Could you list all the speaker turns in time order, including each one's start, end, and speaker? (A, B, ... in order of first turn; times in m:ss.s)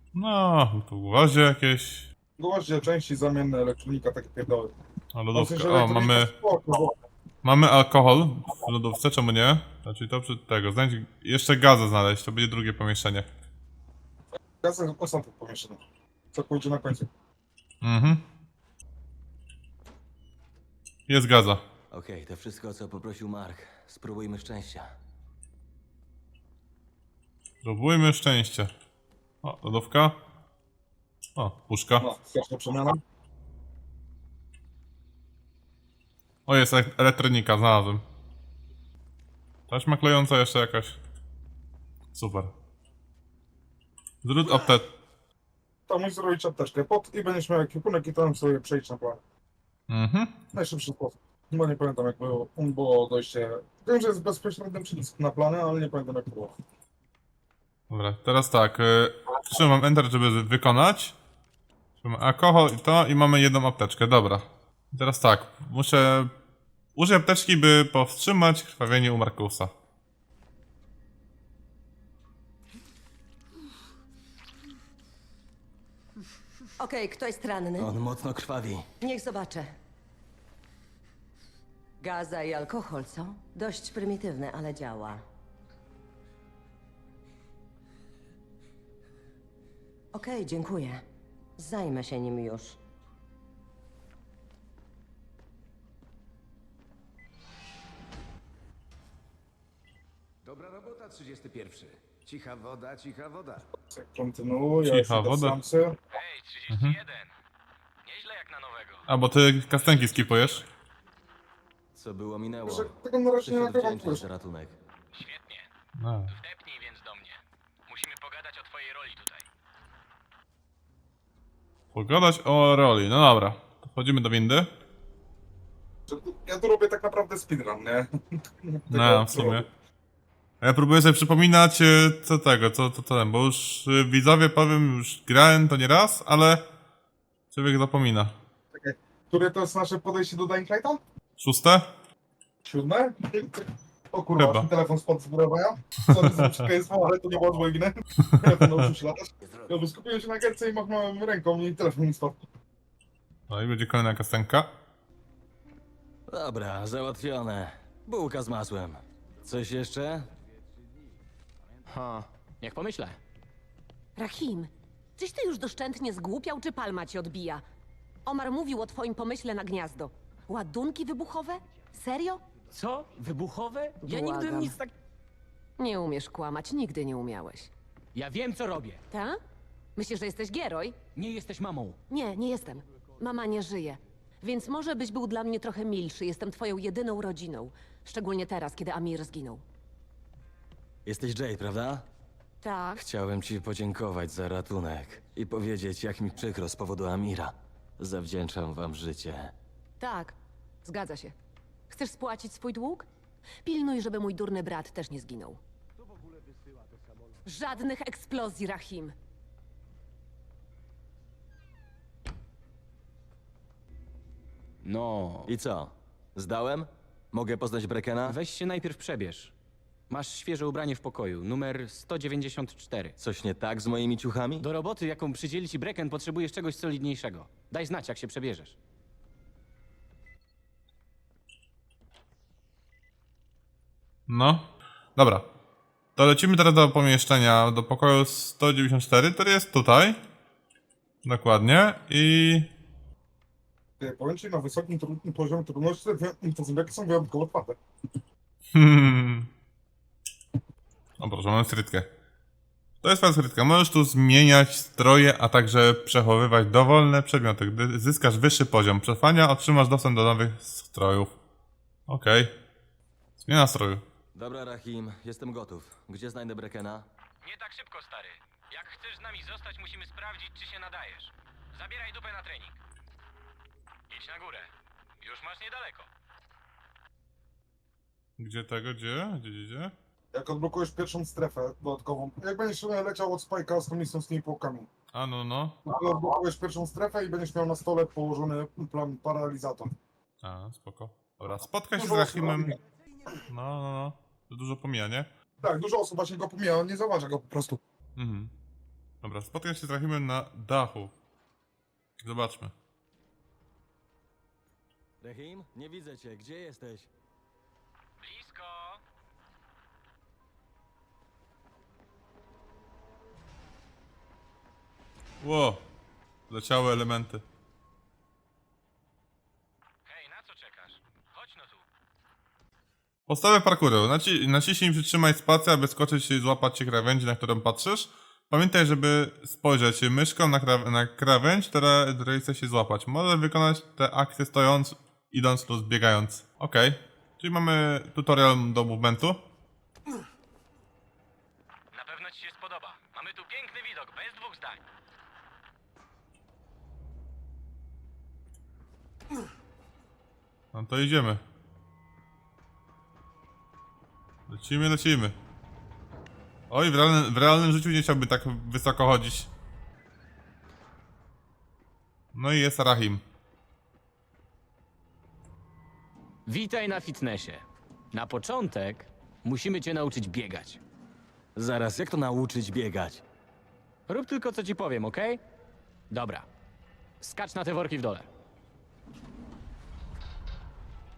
0:00.1-0:02.1 A
0:02.4-0:04.7 B
0:05.1-0:06.3 A
0:05.3-0:06.9 B
0:07.4-0:13.3 A
0:14.6-0:15.8 B
0:16.3-0:17.1 B
0:17.8-0:18.2 A
0:21.1-0:21.6 A
0:21.9-0:24.9 C
0:27.6-0:28.7 A
0:29.4-0:30.2 A
0:31.4-0:32.0 A
0:32.0-0:33.0 B
0:36.5-0:38.0 A
0:39.7-0:41.0 A
0:42.1-0:42.5 A
0:44.2-0:44.9 A
0:45.9-0:49.2 B
0:49.9-0:50.4 A
0:50.5-0:56.5 B
0:57.9-1:01.1 A
1:02.0-1:06.3 A
1:06.9-1:09.7 A
1:16.8-1:17.9 D
1:17.8-1:18.9 C
1:19.0-1:19.8 D
1:22.0-1:25.2 D
1:30.1-1:31.0 D
1:31.6-1:32.8 D
1:40.4-1:43.7 E
1:43.9-1:46.0 B
1:44.8-1:45.6 A
1:46.1-1:47.3 F
1:46.7-1:47.0 A
1:48.0-1:49.0 F
1:49.1-1:50.6 A
1:49.7-1:50.6 F
1:51.9-1:52.9 C
1:52.6-1:54.2 B
1:53.4-1:54.8 C
1:55.1-1:55.7 F
1:56.0-1:56.3 A
1:56.3-1:59.4 F
2:01.9-2:04.7 A
2:06.1-2:08.1 B
2:08.6-2:09.7 B
2:08.9-2:09.6 A
2:10.6-2:16.6 A
2:17.5-2:18.4 A
2:18.7-2:21.0 B
2:21.4-2:21.9 A
2:22.6-2:32.4 B
2:24.4-2:24.7 A
2:26.1-2:26.6 A
2:33.5-2:34.7 A
2:36.3-2:40.3 C
2:42.6-2:43.2 F
2:44.2-2:47.6 G
2:48.2-2:52.4 G
2:52.7-2:54.9 F
2:54.0-2:54.8 G
2:55.8-2:57.7 G
2:58.1-2:59.0 F
2:59.1-2:59.4 G
3:00.0-3:01.0 G
3:01.1-3:02.0 F
3:02.1-3:09.6 G
3:11.0-3:12.0 C
3:12.6-3:13.0 G
3:13.0-3:19.5 C
3:20.0-3:21.3 G
3:21.9-3:23.0 G
3:23.6-3:25.6 G
3:26.0-3:27.4 E
3:27.4-3:29.1 G
3:34.8-3:35.5 F
3:35.5-3:38.4 C
3:38.2-3:39.5 F
3:40.1-3:43.2 F
3:43.2-3:44.7 C
3:44.6-3:48.8 F
3:54.3-3:55.5 A
3:56.2-4:00.2 A
4:01.2-4:02.7 A
4:04.0-4:07.8 B
4:08.7-4:09.5 A
4:11.2-4:12.1 A
4:13.0-4:21.3 A
4:22.1-4:22.5 A
4:23.4-4:24.0 A
4:24.3-4:27.0 C
4:27.4-4:32.8 F
4:34.1-4:36.1 F
4:38.4-4:39.9 A
4:40.3-4:44.9 B
4:45.1-4:45.8 A
4:45.8-4:49.9 B
4:50.4-4:52.7 A
4:51.9-4:52.8 B
4:53.5-4:55.3 A
4:55.6-4:57.8 B
4:58.2-4:58.5 A
4:59.2-5:01.1 A
5:02.2-5:02.7 A
5:05.2-5:07.1 C
5:08.2-5:09.0 F
5:15.4-5:15.8 A
5:16.5-5:17.4 A
5:20.0-5:21.8 F
5:23.3-5:39.4 A
5:41.9-5:44.8 F
5:50.7-5:51.4 A
5:54.5-5:55.3 A
5:56.7-5:59.5 A
6:02.3-6:03.2 A
6:06.4-6:10.8 F
6:11.6-6:13.2 C
6:14.1-6:15.4 F
6:16.1-6:16.5 F
6:17.2-6:18.3 F